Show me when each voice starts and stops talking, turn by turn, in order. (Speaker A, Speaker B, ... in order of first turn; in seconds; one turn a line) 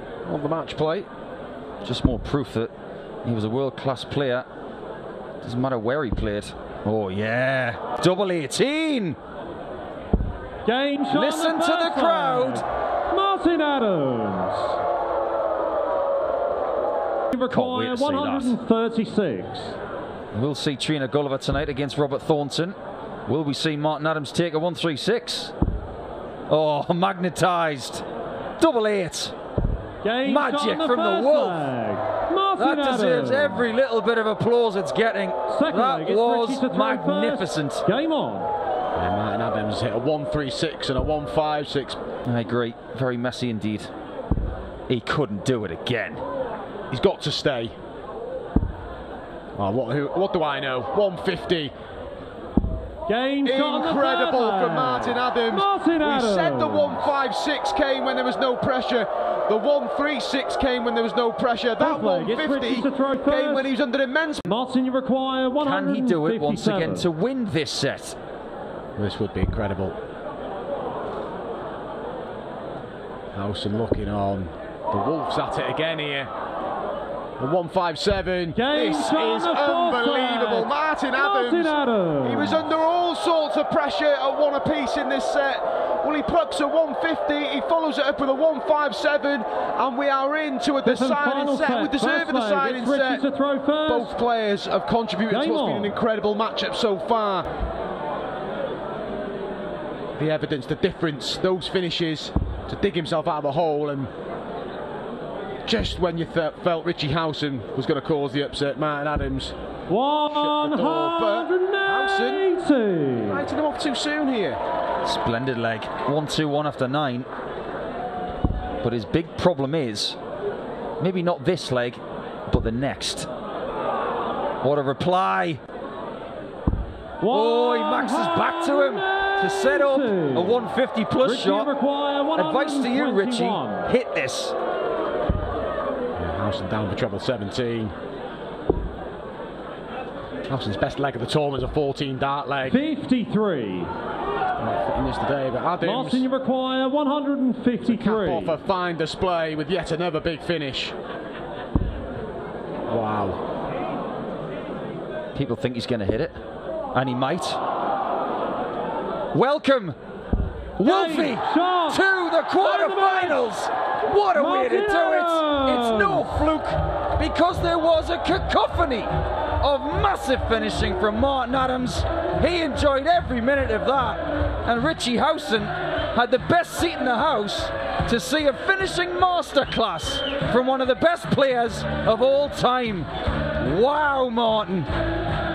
Speaker A: 0.2-1.1
Speaker B: 1.8-2.7
Speaker B: 3.2-4.5
Speaker B: 5.4-9.2
Speaker C: 10.7-14.8
Speaker B: 11.1-12.6
Speaker C: 17.3-19.8
Speaker B: 17.5-18.6
Speaker B: 20.3-22.7
Speaker B: 23.3-25.5
Speaker B: 26.5-28.0
Speaker B: 28.6-29.3
Speaker C: 30.0-33.7
Speaker B: 30.2-31.7
Speaker B: 32.6-37.8
Speaker C: 35.5-38.5
Speaker A: 39.0-42.0
Speaker B: 42.2-43.9
Speaker B: 44.9-46.2
Speaker A: 46.9-47.7
Speaker A: 49.6-51.7
Speaker C: 53.1-57.1
Speaker A: 53.4-64.5
Speaker C: 61.8-63.7
Speaker C: 64.5-67.1
Speaker B: 65.6-68.2
Speaker A: 69.0-70.0
Speaker A: 73.3-76.3
Speaker A: 77.4-93.3
Speaker C: 78.5-82.7
Speaker C: 90.8-94.1
Speaker A: 93.8-97.5
Speaker C: 95.3-96.0
Speaker A: 100.2-104.1
Speaker A: 105.7-109.5
Speaker C: 109.9-113.4
Speaker A: 110.2-112.6
Speaker A: 113.1-114.6
Speaker B: 115.0-117.3
Speaker B: 118.8-120.2
Speaker B: 121.0-123.3
Speaker B: 124.6-125.6
Speaker C: 127.2-130.7
Speaker B: 127.2-131.7
Speaker C: 131.2-133.9
Speaker B: 132.3-134.5
Speaker A: 136.2-137.9
Speaker A: 140.5-142.8
Speaker C: 142.6-143.9
Speaker A: 144.6-146.2
Speaker C: 145.8-148.6
Speaker A: 147.8-150.9
Speaker A: 152.9-153.4
Speaker B: 155.3-156.3
Speaker B: 156.9-157.6
Speaker B: 159.3-159.9
Speaker B: 160.8-184.9
Speaker C: 160.8-162.0
Speaker C: 162.6-163.5
Speaker C: 164.3-166.3